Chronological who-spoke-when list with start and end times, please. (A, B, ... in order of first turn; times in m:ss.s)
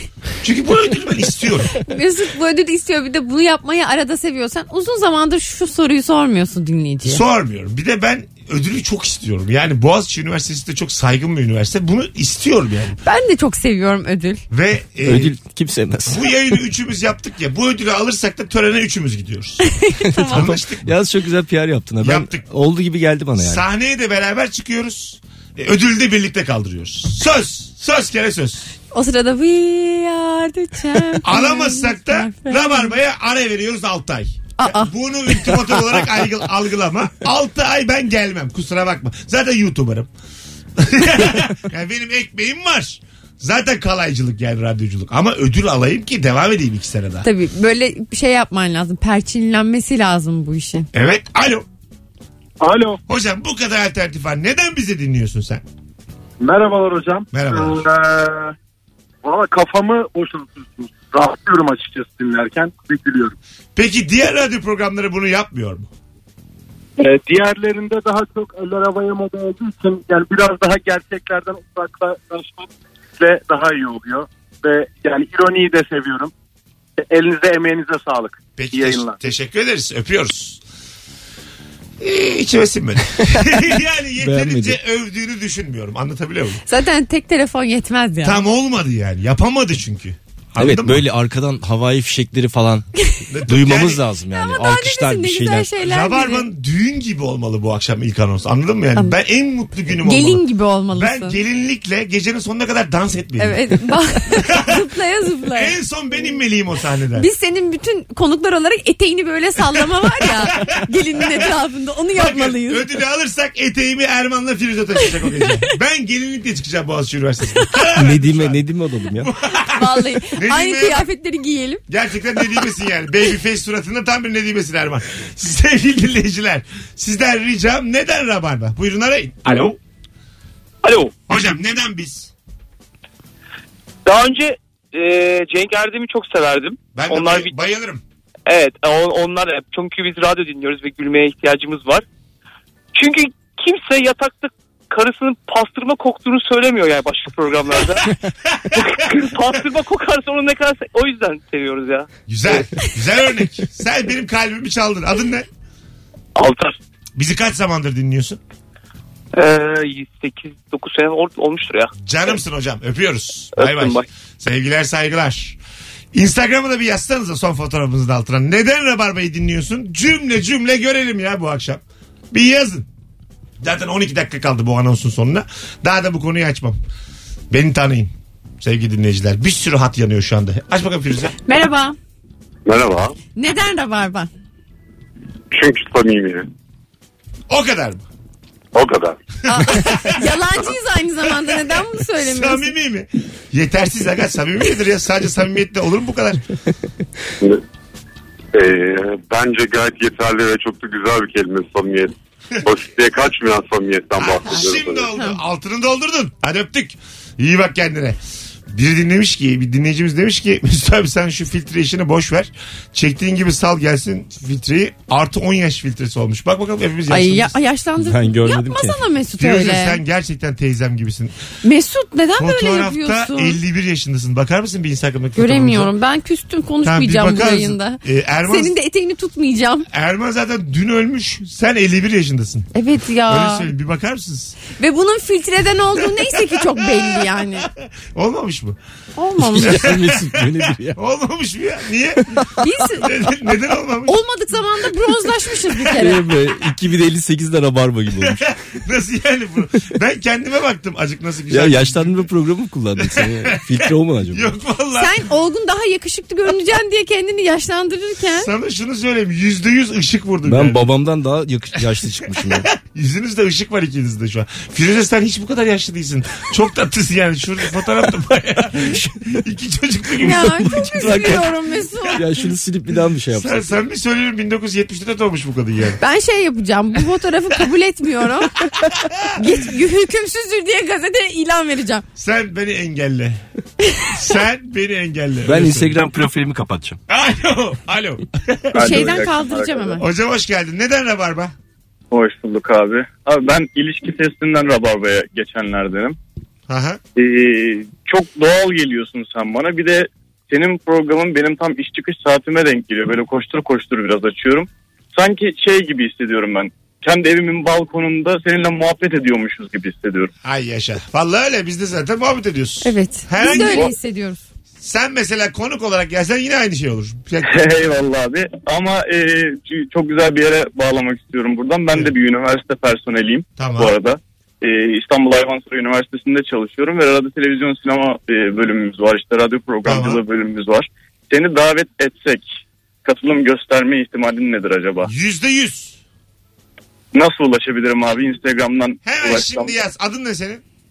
0:00.4-0:01.8 A
0:01.8-0:07.2 B
0:07.0-0:13.0 A
0:13.0-0:14.4 B
0:14.5-0:15.4 A
0:15.0-0:16.2 C
0:16.0-0:19.6 A
0:19.6-0:20.4 B
0:20.1-0:23.6 C
0:20.3-0:20.9 A
0:22.0-0:22.4 A
0:23.4-0:28.7 A
0:28.9-0:32.9 B
0:31.2-0:40.1 A
0:34.6-0:35.6 B
0:40.8-0:47.3 A
0:47.2-0:50.9 B
0:50.9-0:51.7 A
0:52.6-0:53.0 D
0:53.1-0:55.6 A
0:56.4-0:58.5 D
0:57.3-0:57.8 A
0:59.2-1:03.3 D
1:03.8-1:05.9 A
1:07.0-1:16.3 D
1:17.0-1:19.2 D
1:18.6-1:20.6 A
1:22.0-1:26.6 A
1:24.2-1:24.8 C
1:26.7-1:28.4 B
1:28.2-1:31.0 A
1:30.6-1:32.8 C
1:33.3-1:34.0 A
1:33.5-1:35.7 C
1:34.3-1:36.4 B
1:35.8-1:43.6 A
1:40.0-1:41.4 B
1:43.4-1:45.7 B
1:44.4-1:44.7 A
1:45.5-1:47.3 A
1:47.1-1:52.8 B
1:50.5-1:51.5 A
1:52.2-1:58.6 A
1:57.9-1:59.3 C
1:59.2-2:01.0 A
1:59.7-2:01.8 B
2:01.9-2:09.8 A
2:02.4-2:02.7 B
2:10.8-2:11.1 E
2:11.3-2:12.3 A
2:14.0-2:17.5 E
2:16.9-2:18.0 A
2:18.5-2:22.0 E
2:22.9-2:28.1 E
2:28.5-2:28.8 A
2:28.7-2:32.1 E
2:32.3-2:35.5 A
2:36.4-2:36.7 E
2:37.2-2:38.4 A
2:39.3-2:41.9 E
2:42.0-2:45.6 A
2:43.6-2:44.0 E
2:46.1-2:52.9 A
2:53.6-2:56.8 A
2:57.5-3:01.3 A
3:01.4-3:02.0 B
3:02.6-3:03.2 F
3:03.4-3:04.3 B
3:05.5-3:06.4 F
3:07.5-3:08.0 A
3:08.7-3:09.2 F
3:09.5-3:12.7 B
3:09.5-3:10.3 A
3:12.2-3:16.4 A
3:18.5-3:25.1 F
3:24.2-3:37.5 A
3:37.1-3:40.0 B
3:38.0-3:39.0 C
3:39.4-3:41.3 A
3:41.6-3:43.6 B
3:42.4-3:45.9 A
3:45.4-3:49.9 B
3:46.8-3:48.7 A
3:49.9-3:52.7 A
3:52.7-3:53.7 B
3:53.3-3:54.6 A
3:54.8-3:57.7 B
3:56.0-3:58.8 A
3:59.2-3:59.8 B
3:59.4-4:01.0 C
3:59.6-4:02.5 A
4:02.6-4:03.4 B
4:03.0-4:04.2 A
4:04.0-4:06.3 B
4:05.9-4:08.5 C
4:08.2-4:12.2 A
4:11.5-4:14.5 C
4:13.0-4:15.2 A
4:15.0-4:18.5 B
4:18.3-4:20.8 A
4:20.4-4:22.7 C
4:22.4-4:30.8 A
4:28.8-4:29.2 C
4:30.2-4:32.2 B
4:30.5-4:31.5 C
4:32.1-4:33.8 C
4:33.3-4:36.0 A
4:36.0-4:38.6 B
4:38.9-4:39.3 A
4:39.3-4:42.0 B
4:42.2-4:43.4 A
4:44.1-4:46.0 A
4:45.4-4:47.0 C
4:47.1-4:49.2 A
4:48.7-4:50.0 G
4:48.8-4:50.0 B
4:50.0-4:51.5 A
4:52.1-4:56.2 G
4:56.7-4:57.0 A
4:57.2-5:10.3 G
5:10.4-5:13.9 A
5:12.8-5:14.4 B
5:14.8-5:17.5 A
5:17.4-5:32.5 G
5:23.6-5:23.9 A
5:29.8-5:30.2 A
5:33.0-5:35.1 G
5:35.0-5:36.0 A
5:37.1-5:39.8 G
5:39.0-5:40.6 A